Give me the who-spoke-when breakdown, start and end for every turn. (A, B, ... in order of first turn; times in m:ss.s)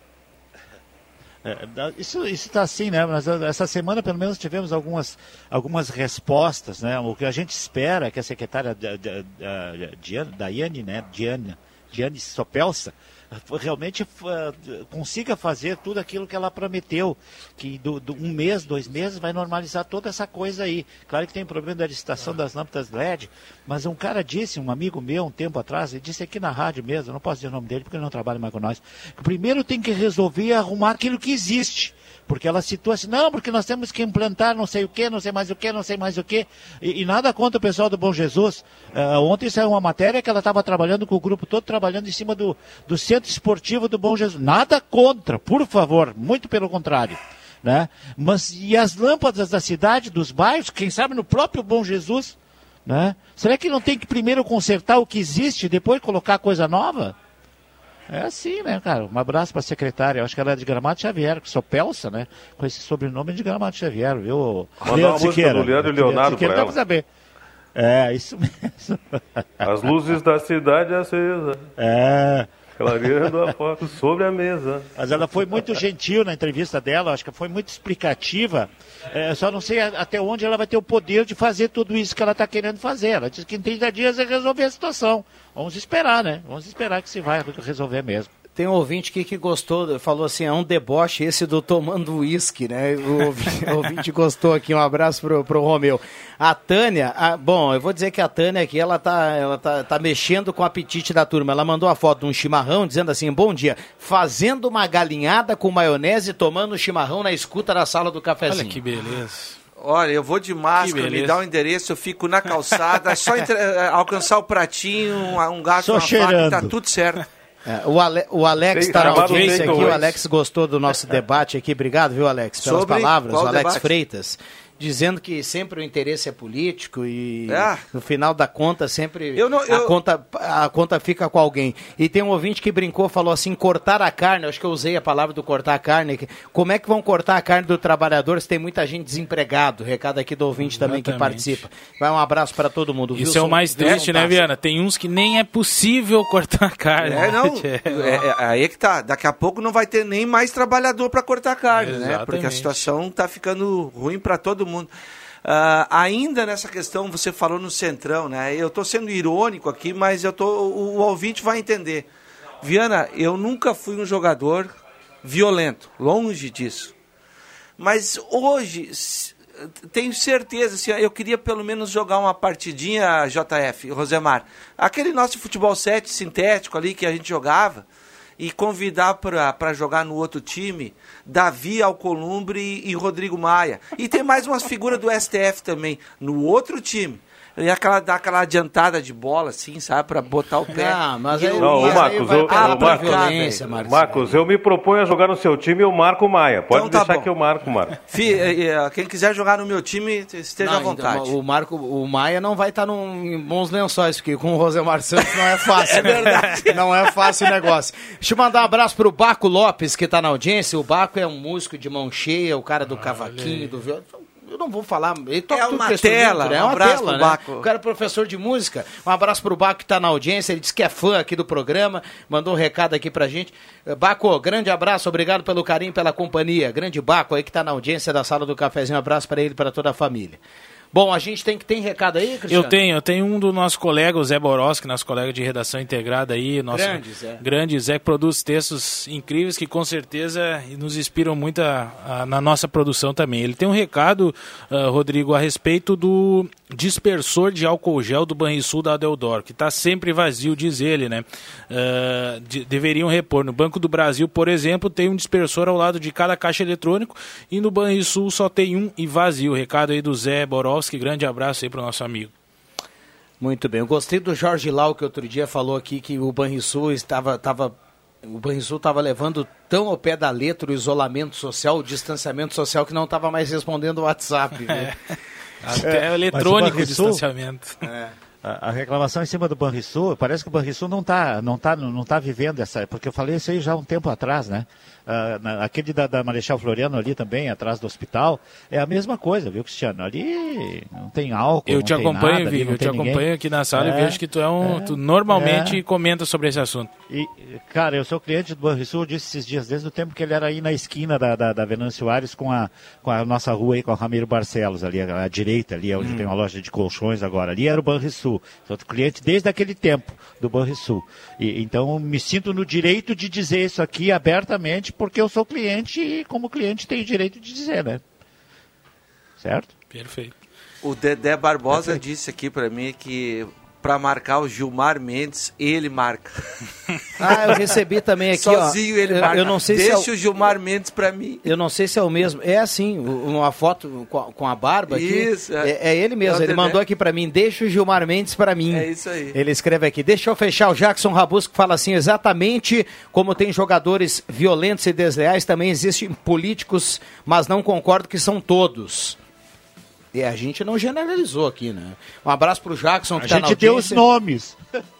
0:01.4-0:57.2 A
0:58.1-1:07.0 A
1:04.8-1:06.8 B
1:07.7-1:09.9 A
1:09.6-1:11.6 B
1:11.8-1:12.5 A
1:12.8-1:14.9 B
1:15.0-1:28.3 A
1:28.6-1:48.8 C
1:48.5-1:49.6 D
1:49.8-1:57.2 E
1:50.7-1:51.4 D
1:52.7-1:53.1 D
1:55.8-1:56.7 A
1:57.6-2:24.4 C
1:58.7-2:00.1 B
1:58.9-2:00.1 D
2:02.6-2:03.9 E
2:07.5-2:07.8 E
2:09.3-2:09.9 E
2:20.6-2:21.6 D
2:23.1-2:28.2 D
2:27.0-2:34.9 E
2:31.7-2:32.8 D
2:35.4-2:42.1 E
2:42.6-2:46.9 E
2:47.8-2:57.8 E
2:58.4-3:13.6 E
3:10.7-3:14.4 C
3:11.6-3:18.0 B
3:16.7-3:17.3 E
3:18.1-3:21.3 E
3:20.6-3:50.4 C
3:25.6-3:26.8 E
3:32.9-3:33.7 D
3:35.5-3:37.7 E
3:50.9-3:52.9 C
3:52.5-4:22.3 D
3:56.7-3:57.4 C
4:23.4-4:34.9 C
4:34.7-4:34.9 D
4:35.6-4:37.8 D
4:35.8-4:37.2 A
4:37.8-4:38.1 C
4:38.4-4:55.8 A
4:51.7-4:56.9 D
4:57.1-5:18.0 A
5:19.4-5:19.7 A
5:19.9-5:20.3 D
5:20.8-5:26.4 E
5:27.2-5:30.1 C
5:27.2-5:27.7 E
5:28.3-5:31.5 E
5:31.4-5:49.2 C
5:34.9-5:36.8 E
5:38.7-5:39.4 E
5:50.1-5:54.0 C
5:53.2-5:54.6 A